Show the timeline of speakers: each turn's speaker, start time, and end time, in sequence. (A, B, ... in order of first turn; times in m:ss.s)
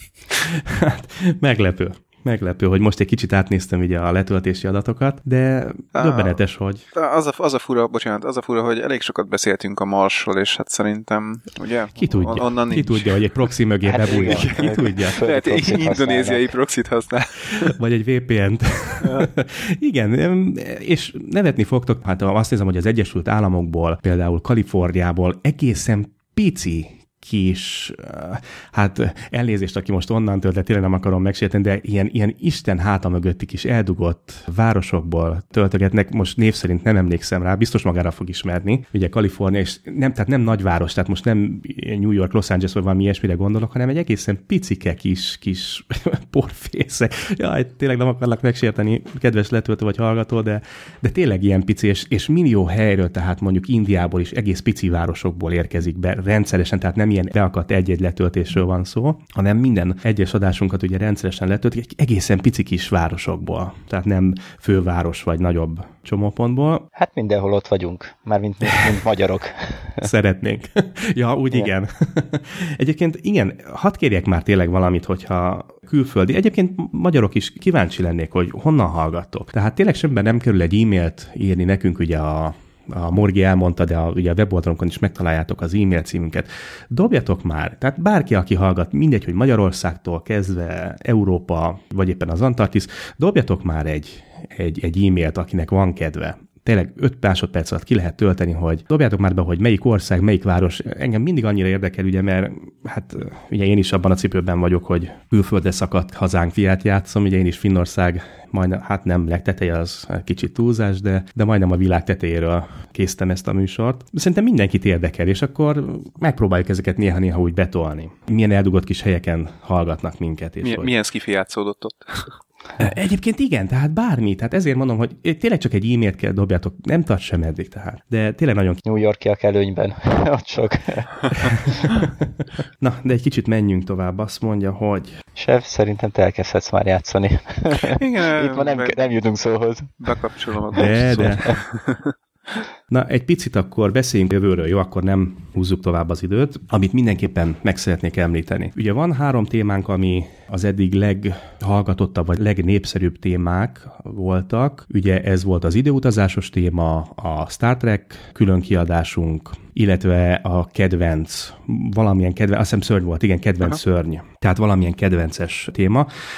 0:00.4-0:06.8 A
0:06.0-0:06.4 B
0:06.9-0:13.2 B
0:11.9-0:15.2 A
0:13.8-0:16.4 C
0:14.0-0:17.7 B
0:17.5-1:06.9 A
0:19.0-0:19.3 B
1:07.0-1:10.0 C
1:10.0-2:00.9 A
2:00.6-2:02.4 B
2:02.8-2:08.8 A
2:08.8-2:11.8 C
2:12.8-2:15.2 A
2:15.4-2:20.1 C
2:17.9-2:19.0 B
2:20.0-2:22.1 B
2:20.7-2:21.6 A
2:22.9-2:46.1 A